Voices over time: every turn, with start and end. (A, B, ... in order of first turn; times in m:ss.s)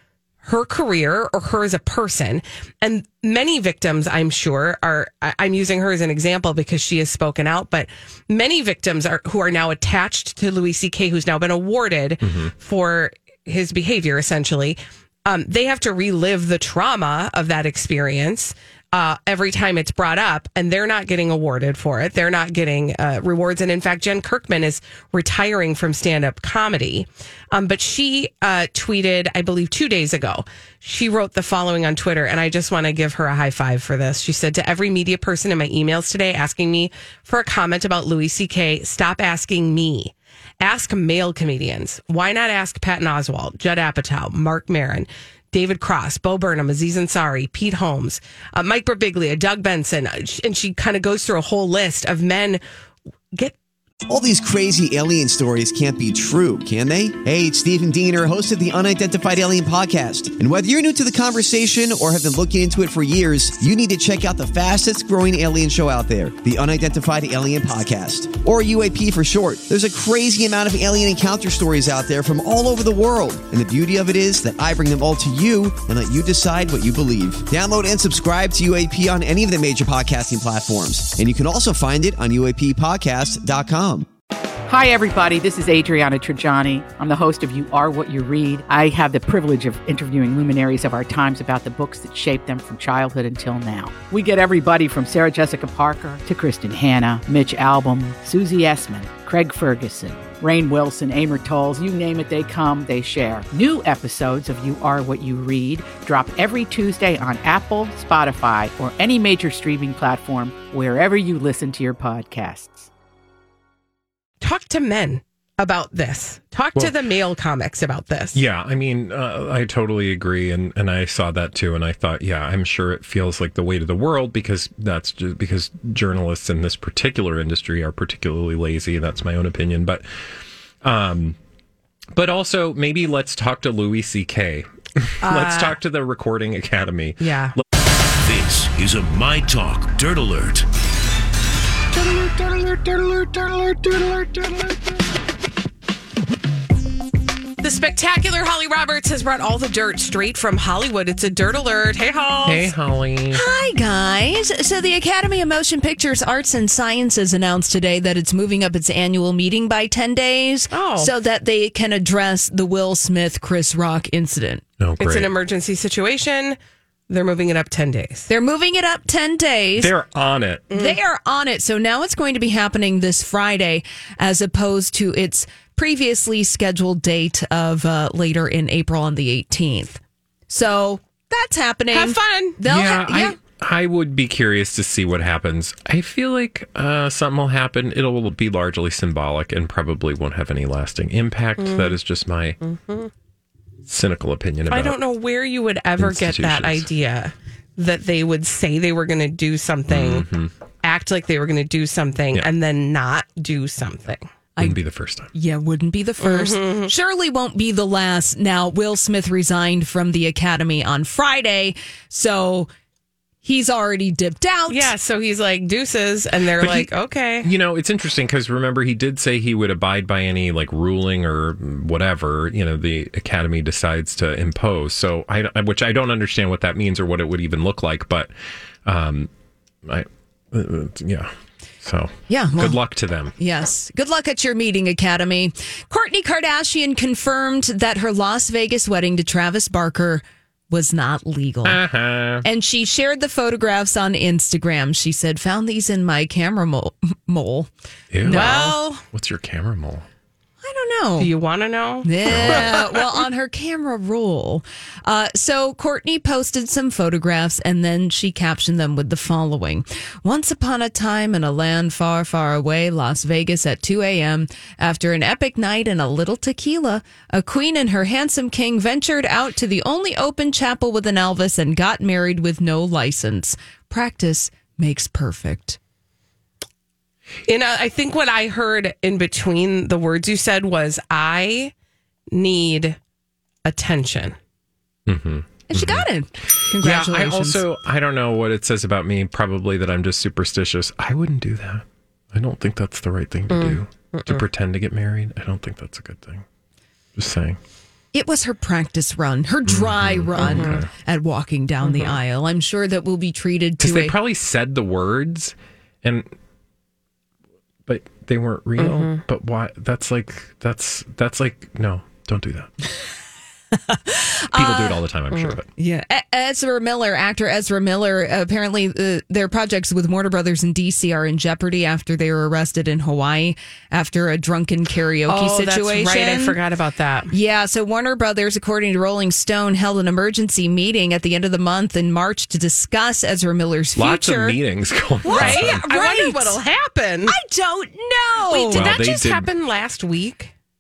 0:00.4-0:52.6 A
0:12.2-0:12.5 B
0:54.1-1:24.1 C
1:24.7-1:52.9 D
1:54.4-1:58.4 A
1:58.4-2:10.0 B
2:10.8-2:11.4 B
2:12.1-2:17.3 B
2:15.2-2:15.8 A
2:17.2-2:17.6 A
2:18.2-2:20.7 E
2:21.9-2:24.9 B
2:27.6-2:32.7 A
2:32.4-2:33.4 B
2:33.3-2:44.6 F
2:40.7-2:41.1 A
2:44.8-2:45.3 B
2:45.0-2:46.6 A
2:47.1-2:48.3 A
2:48.3-2:49.9 F
2:49.8-2:50.7 B
2:50.7-2:51.0 A
2:50.7-3:03.4 F
3:01.9-3:02.6 A
3:02.7-3:12.6 B
3:11.6-3:12.0 A
3:12.6-3:13.1 A
3:13.9-3:15.0 B
3:14.7-3:20.3 A
3:16.0-3:16.9 B
3:19.9-3:20.5 B
3:20.8-3:24.3 A
3:24.6-3:25.3 B
3:25.3-3:32.7 F
3:26.2-3:26.9 A
3:33.4-3:34.9 F
3:34.7-3:37.5 A
3:36.6-3:36.9 B
3:37.4-3:48.3 B
3:48.9-3:49.3 B
3:49.8-3:51.3 B
3:51.8-3:53.3 B
3:52.3-3:52.8 F
3:53.4-4:01.8 F
4:01.6-4:02.4 B
4:02.4-4:07.7 F
4:08.1-4:08.6 B
4:08.2-4:08.8 F
4:08.3-4:09.0 A
4:09.1-4:10.0 B
4:10.6-4:11.3 F
4:11.2-4:12.9 A
4:12.0-4:35.8 F
4:12.3-4:12.8 B
4:37.5-4:41.7 A
4:42.3-4:43.0 A
4:43.6-4:44.4 A
4:45.1-4:56.4 B
4:45.7-4:47.6 F
4:53.5-4:54.4 A
4:57.2-4:57.6 B
4:58.1-5:04.2 F
4:59.7-5:00.9 B
5:00.4-5:00.8 A
5:01.8-5:02.2 A
5:03.8-5:06.3 B
5:07.9-5:12.7 B
5:08.8-5:09.2 A
5:13.7-5:15.0 F
5:14.5-5:15.7 B
5:15.3-5:15.6 A
5:15.8-5:26.6 F
5:25.3-5:27.3 A
5:27.3-5:34.6 F
5:34.0-5:35.8 B
5:35.2-5:36.6 F
5:35.2-5:37.4 A
5:37.3-5:38.9 F
5:38.5-5:40.5 A
5:38.7-5:39.5 B